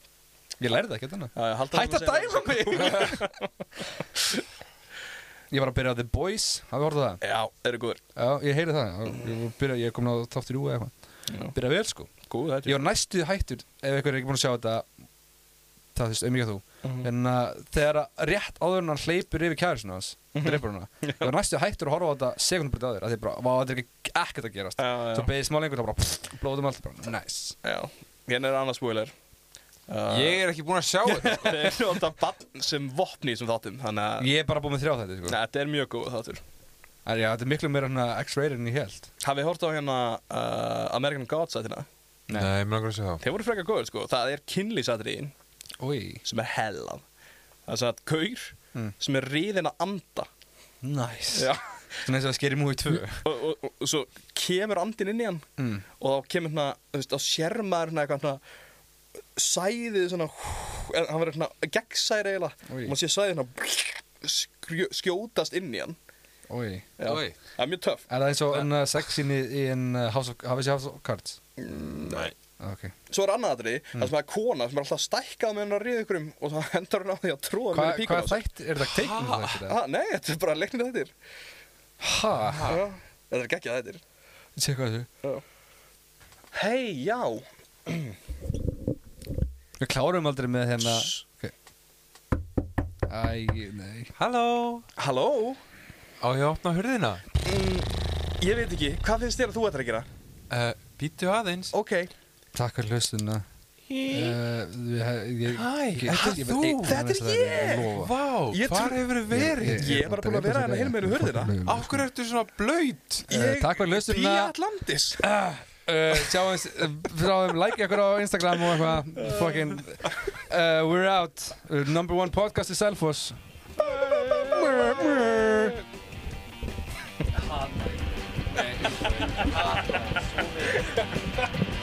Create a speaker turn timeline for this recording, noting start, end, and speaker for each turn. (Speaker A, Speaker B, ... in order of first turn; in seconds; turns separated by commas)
Speaker A: 0.6-3.3, Speaker B: 1.3-3.5, Speaker A: 5.5-7.2, Speaker B: 7.2-8.0, Speaker A: 8.2-10.9, Speaker B: 11.3-11.5, Speaker A: 11.5-12.1, Speaker B: 12.2-12.9, Speaker A: 12.6-14.9, Speaker A: 15.9-27.6, Speaker B: 16.8-17.1, Speaker B: 20.3-21.3, Speaker B: 24.8-25.3, Speaker B: 27.6-29.1, Speaker B: 29.9-30.4, Speaker C: 30.1-31.7, Speaker B: 31.3-34.3, Speaker A: 34.2-35.4, Speaker B: 35.3-36.4, Speaker A: 37.0-39.1, Speaker B: 39.2-41.9, Speaker C: 42.3-43.2, Speaker B: 43.2-45.3, Speaker A: 45.8-46.2, Speaker B: 46.2-47.0, Speaker B: 47.7-50.3, Speaker A: 50.8-53.2, Speaker B: 51.3-51.7, Speaker B: 53.1-55.5, Speaker A: 55.6-55.8, Speaker B: 56.0-58.4, Speaker B: 59.4-66.0, Speaker A: 62.7-62.9, Speaker A: 66.5-66.9, Speaker B: 67.0-68.0, Speaker C: 67.0-67.3, Speaker A: 68.1-71.4, Speaker B: 71.6-72.3, Speaker C: 72.0-72.3, Speaker A: 72.6-72.9, Speaker B: 73.1-78.4, Speaker A: 77.7-79.8, Speaker C: 78.9-79.6, Speaker B: 79.6-81.1, Speaker A: 82.0-82.8, Speaker C: 82.3-82.8, Speaker B: 82.7-84.0, Speaker A: 84.5-85.1, Speaker B: 86.5-88.2, Speaker A: 89.8-91.5, Speaker B: 90.9-91.2, Speaker A: 93.1-94.1, Speaker C: 94.2-94.9, Speaker B: 95.0-95.6, Speaker C: 96.2-97.2, Speaker B: 97.4-100.1, Speaker C: 100.5-101.7, Speaker B: 101.7-102.1, Speaker A: 102.5-103.4, Speaker C: 104.0-104.4, Speaker A: 104.0-108.1, Speaker C: 105.5-107.0, Speaker B: 106.1-107.9, Speaker C: 107.9-110.0, Speaker B: 108.5-111.5, Speaker A: 109.3-112.1, Speaker C: 111.6-113.3, Speaker A: 113.3-114.5, Speaker B: 113.3-115.2, Speaker A: 115.2-125.8, Speaker B: 119.1-119.8, Speaker B: 123.8-125.5, Speaker A: 127.3-130.8, Speaker C: 129.4-129.8